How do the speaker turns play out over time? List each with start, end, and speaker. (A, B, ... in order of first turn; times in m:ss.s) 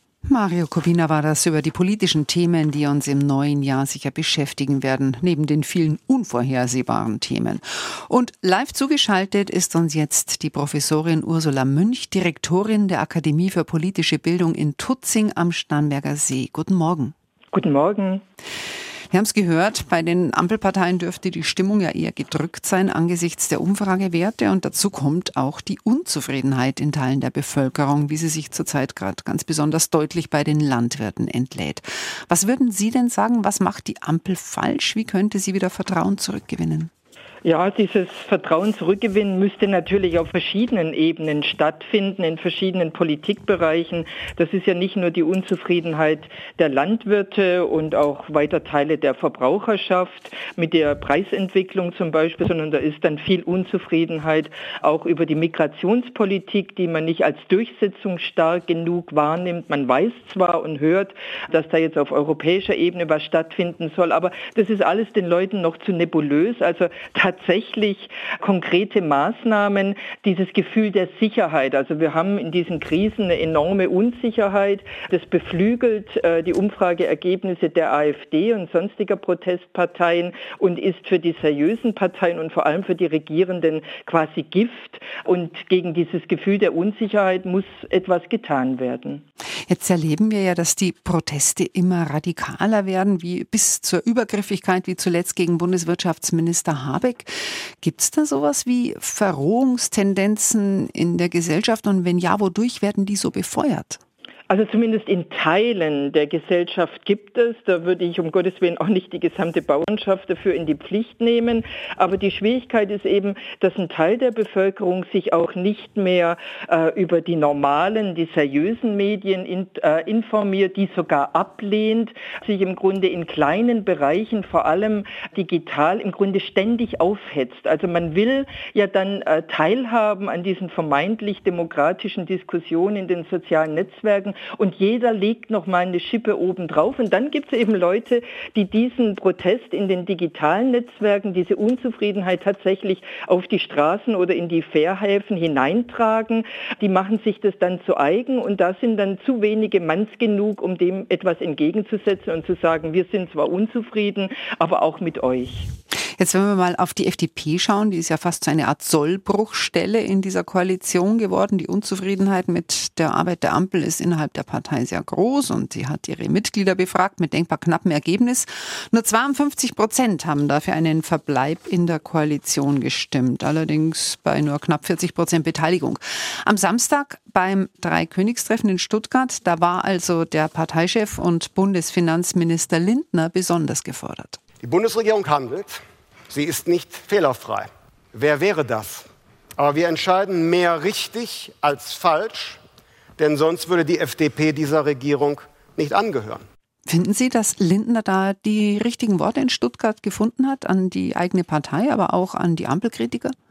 0:00.2-0:17.1 A
0:17.5-0:18.2 B
0:19.1-0:36.9 A
0:37.4-1:29.2 B
1:29.7-1:44.0 A
1:44.5-2:35.7 B
2:36.2-3:04.4 A
3:04.6-3:12.6 C
3:13.2-3:16.4 C
3:16.8-3:23.3 A